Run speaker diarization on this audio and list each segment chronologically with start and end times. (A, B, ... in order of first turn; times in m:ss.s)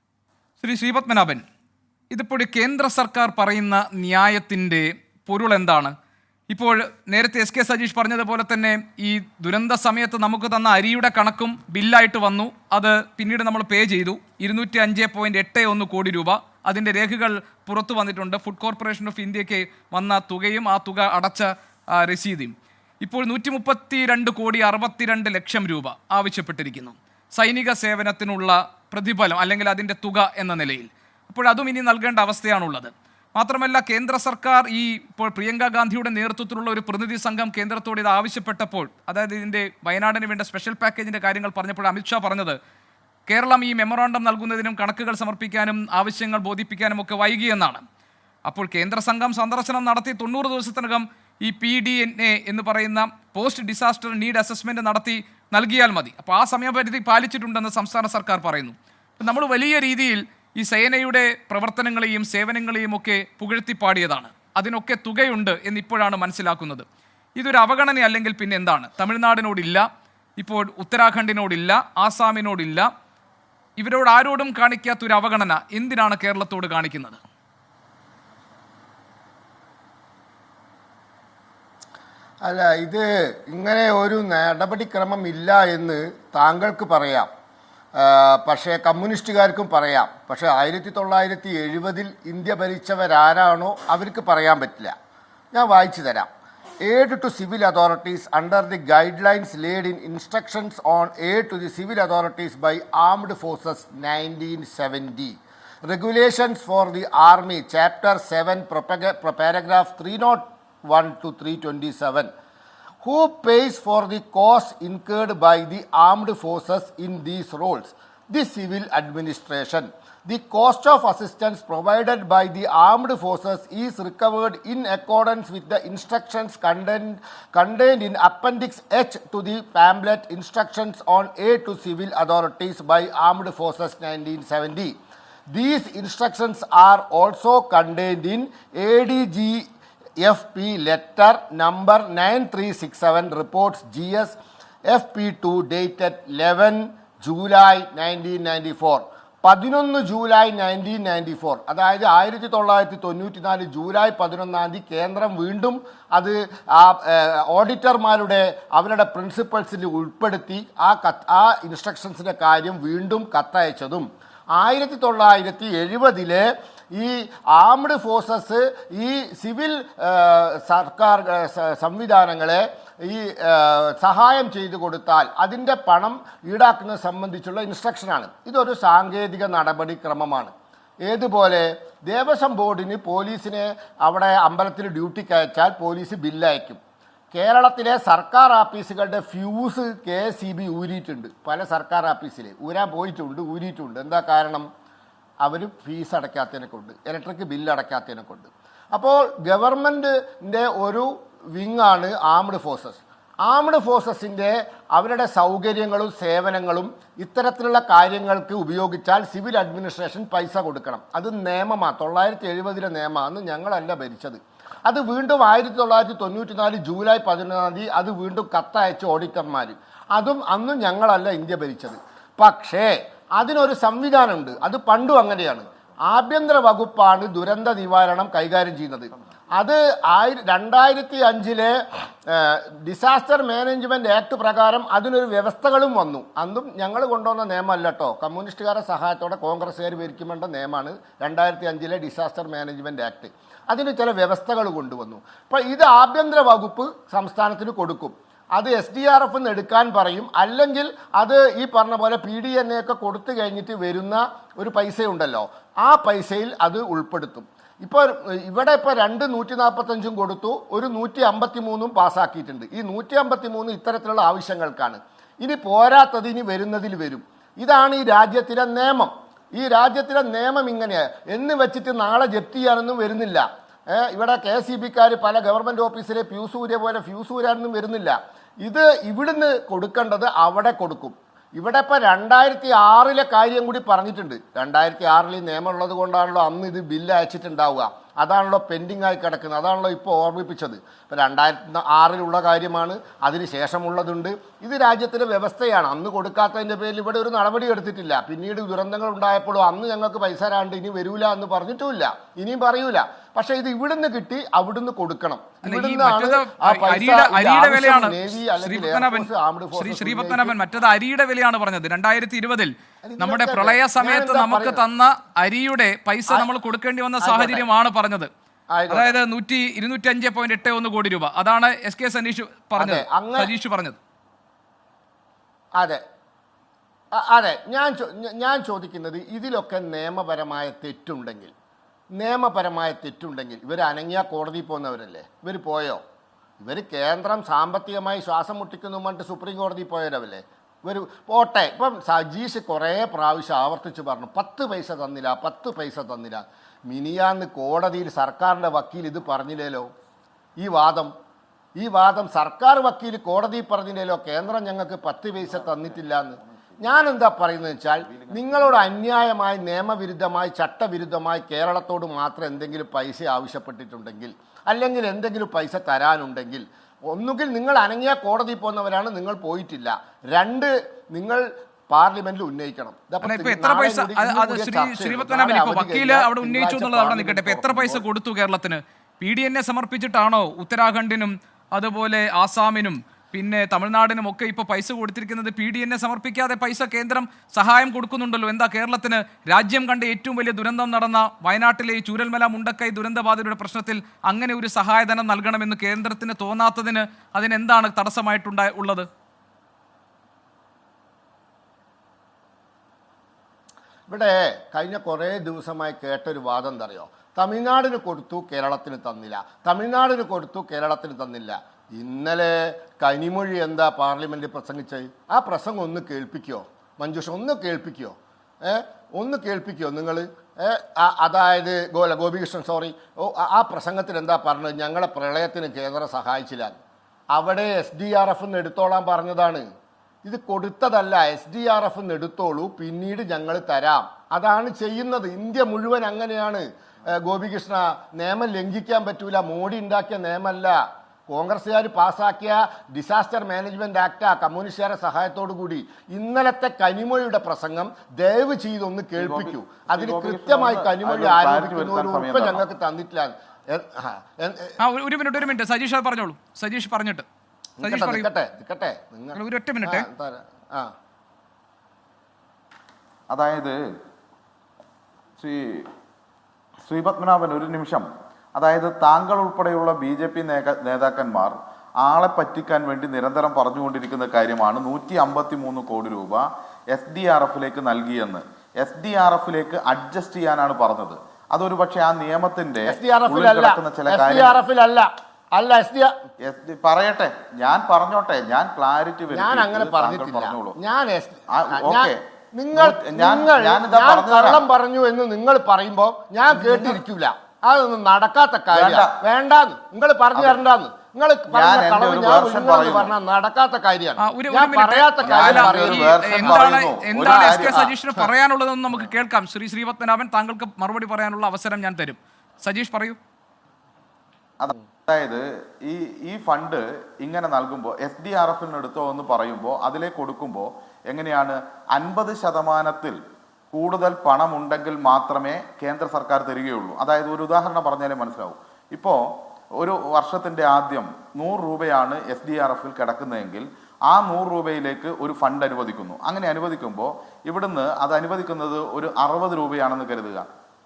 0:00.6-0:01.4 A
0:02.1-0:05.9 A
0:06.5-0:42.6 A
0:43.3-0:47.8 A
0:48.5-1:06.8 A
1:07.4-1:09.8 A
1:10.4-1:12.9 A
1:13.8-1:17.2 A
1:22.4-1:27.3 B
1:28.0-1:34.9 B
1:35.5-1:36.3 B
1:36.8-1:52.3 B
1:53.0-2:14.9 B
2:15.5-2:19.6 B
2:20.2-2:24.4 B
2:24.9-3:00.5 B
3:01.0-3:06.8 B
3:07.3-3:14.6 B
3:15.4-3:51.8 B
3:52.3-5:10.6 B
5:05.6-5:18.3 A
5:13.0-5:14.8 B
5:17.2-5:17.6 B
5:18.7-5:19.2 B
5:18.9-5:24.0 A
5:22.8-5:23.5 B
5:27.1-5:31.5 B
5:32.1-5:36.0 B
5:36.6-5:49.9 B
5:50.6-5:51.1 B
5:51.8-6:18.0 B
5:55.4-5:57.0 C
5:57.8-5:58.8 C
6:13.2-6:39.1 A
6:44.1-7:06.8 B
7:07.3-7:09.6 B
7:10.2-7:16.6 B
7:17.2-7:20.8 B
7:21.3-7:34.8 B
7:29.2-7:32.6 C
7:34.8-7:37.2 A
7:37.8-7:40.9 B
7:37.8-7:38.3 A
7:39.3-7:40.1 A
7:43.3-7:43.8 C
7:45.4-7:45.9 C
7:46.8-8:04.6 C
8:02.8-8:06.1 B
8:06.4-8:10.8 C
8:09.3-8:26.7 B
8:11.6-8:12.2 C
8:12.7-8:14.6 C
8:16.5-8:17.0 C
8:18.7-8:19.2 C
8:21.5-8:23.1 C
8:24.2-8:33.2 A
8:25.2-8:28.2 C
8:34.6-8:43.2 C
8:43.7-8:49.2 C
8:49.8-9:00.4 C